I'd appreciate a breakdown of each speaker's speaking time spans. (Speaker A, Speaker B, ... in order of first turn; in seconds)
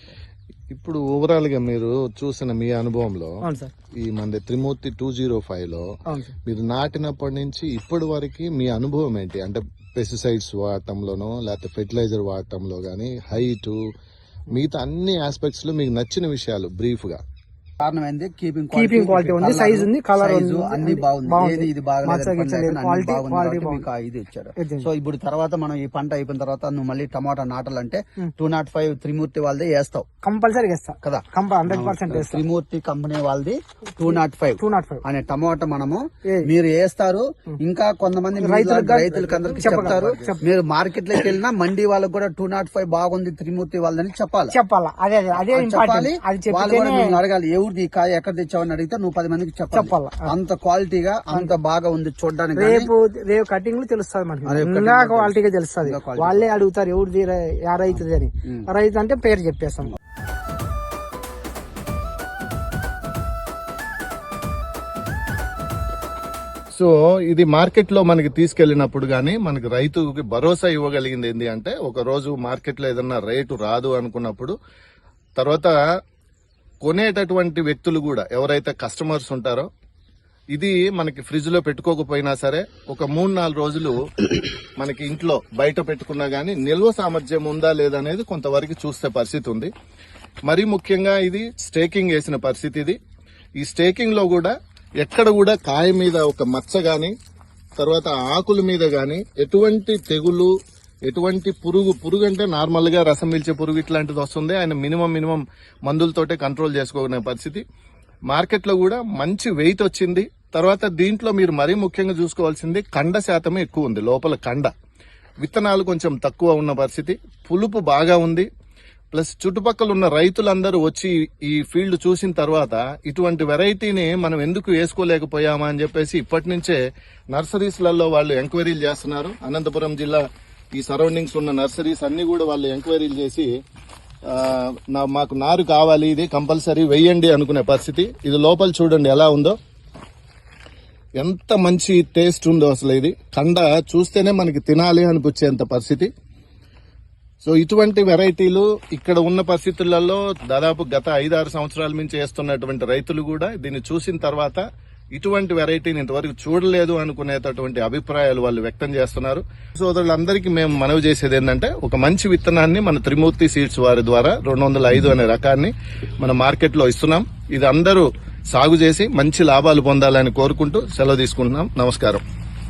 Speaker A: 0.7-3.3, 4.0-5.8, 6.5-13.8, 14.5-17.2, 66.7-74.5, 75.4-75.7, 76.8-79.7, 80.5-84.0, 84.8-89.7, 90.5-93.0, 93.6-94.5, 95.0-97.1, 97.8-100.5, 101.1-107.6, 108.3-114.7, 115.4-118.5, 119.1-126.8, 127.3-133.5, 134.3-139.6, 141.2-146.1, 147.4-154.6, 155.1-172.2
Speaker B: 3.4-3.7, 6.1-6.3, 18.7-23.8, 24.6-24.9, 30.2-32.4, 34.6-35.0, 38.4-40.4, 44.5-47.1, 49.7-50.3, 52.5-60.0
Speaker C: 17.8-30.1, 31.0-44.5, 45.4-52.9, 54.5-56.5